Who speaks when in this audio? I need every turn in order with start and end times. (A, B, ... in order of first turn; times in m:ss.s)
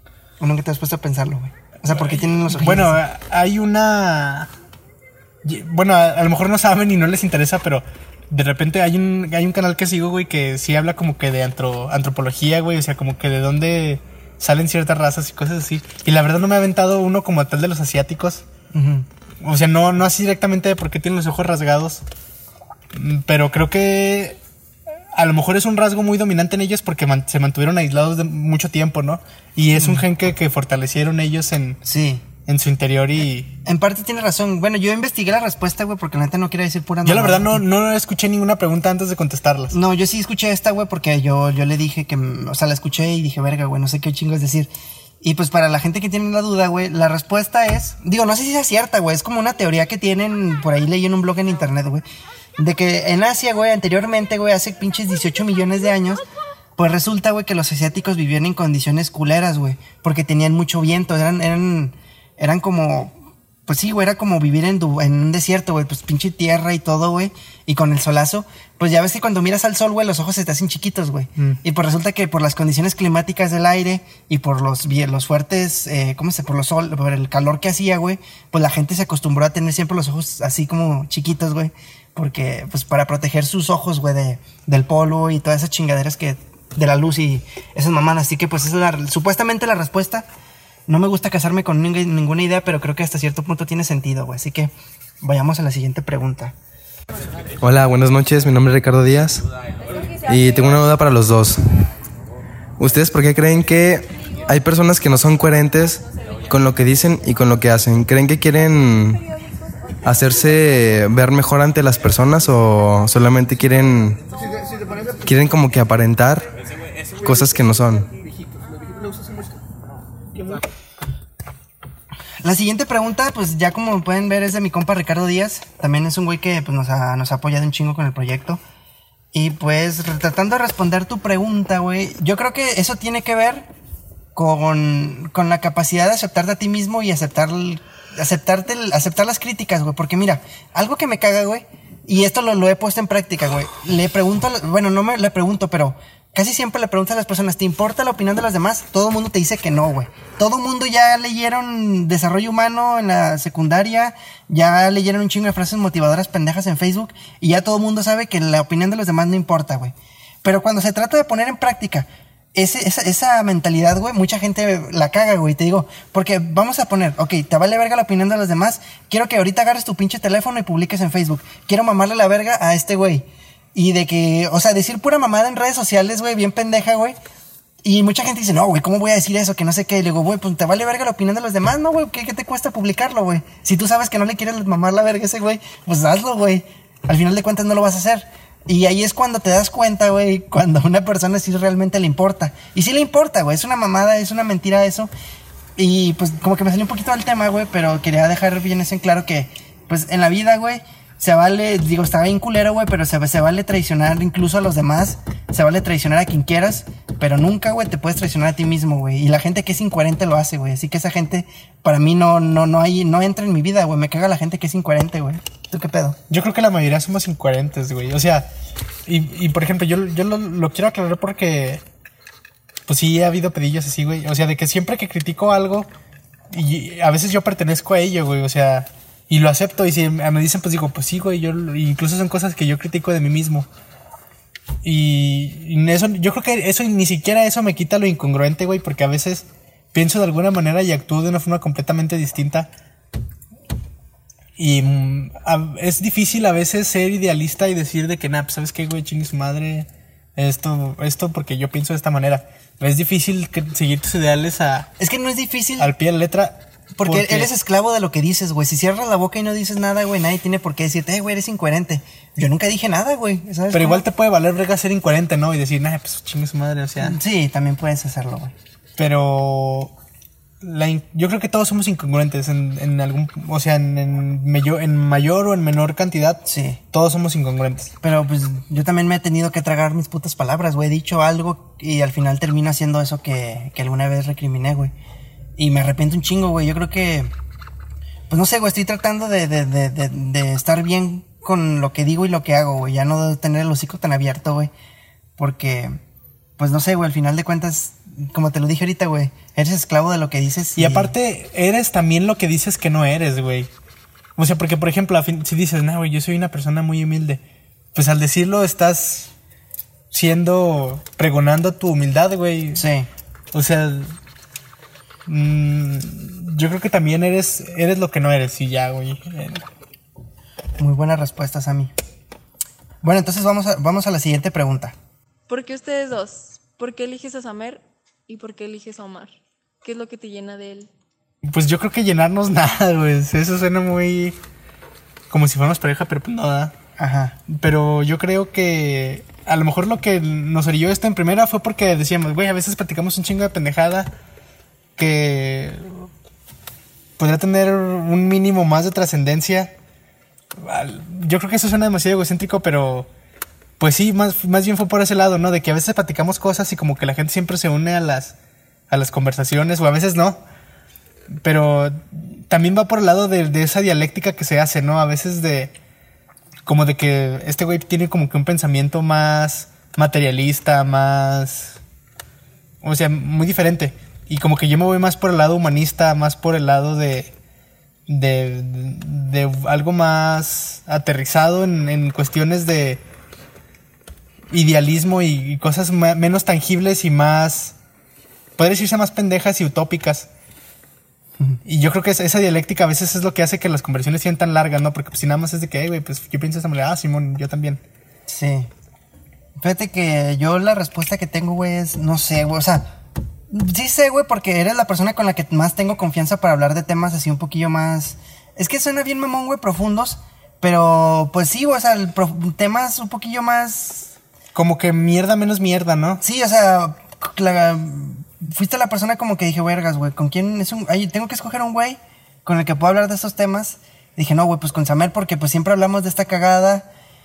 0:00.4-0:03.0 A
0:02.0-0:04.5 B
0:05.4-0:18.4 B
0:18.7-0:19.0 A
0:19.4-0:22.0 B
0:22.9-0:24.4 B
0:25.1-0:31.8 B
0:29.8-0:30.0 A
0:31.8-0:32.2 A
0:32.4-0:33.5 B
0:33.6-0:37.6 A
0:37.0-0:39.8 B
0:39.7-0:44.7 A
0:45.2-0:52.0 A
0:52.6-0:56.2 A
0:56.8-1:03.1 A
1:03.6-1:30.2 A
1:30.9-1:36.5 A
1:37.6-1:39.4 C
1:40.2-1:41.6 C
1:42.8-1:49.2 C
1:50.0-1:54.2 C
1:55.2-1:56.4 C
1:57.2-1:58.1 C
2:02.4-2:08.6 A
2:09.3-2:13.7 A
2:14.3-2:57.2 A
2:57.8-3:15.1 A
3:15.8-3:36.2 A
3:36.3-3:38.5 B
3:39.1-3:41.8 B
3:42.9-3:45.9 B
3:46.5-3:53.6 B
3:54.8-4:02.7 B
4:04.6-4:14.9 B
4:15.0-4:15.9 A
4:15.8-4:17.5 B
4:17.0-4:24.0 A
4:23.7-4:27.2 B
4:27.0-4:28.5 A
4:29.0-4:29.9 B
4:30.6-4:37.9 B
4:36.4-4:36.8 A
4:38.0-4:44.9 A
4:45.6-4:47.3 A
4:48.3-4:54.7 A
4:55.4-4:56.0 A
4:56.6-5:01.1 A
5:00.8-5:03.7 B
5:04.4-5:07.4 B
5:07.9-5:09.3 B
5:10.1-5:12.8 B
5:12.8-5:13.1 A
5:13.5-5:14.1 B
5:15.3-5:19.6 B
5:20.8-5:21.9 A
5:23.0-5:24.9 A
5:25.5-5:30.9 D
5:31.5-5:34.4 B
5:35.3-5:36.7 B
5:37.0-5:37.4 A
5:37.5-5:44.1 B
5:45.0-5:45.9 B
5:47.2-5:49.7 B
5:50.6-5:53.1 B
5:53.8-5:58.3 B
5:58.9-6:00.4 B
6:01.4-6:05.7 B
6:06.6-6:11.8 B
6:12.8-6:17.3 B
6:18.1-6:23.0 B
6:24.5-6:27.7 B
6:28.6-6:30.3 B
6:31.6-6:37.8 B
6:38.3-6:38.7 A
6:39.6-6:42.9 A
6:43.5-6:54.1 A
6:54.5-6:56.2 B
6:56.2-7:06.9 A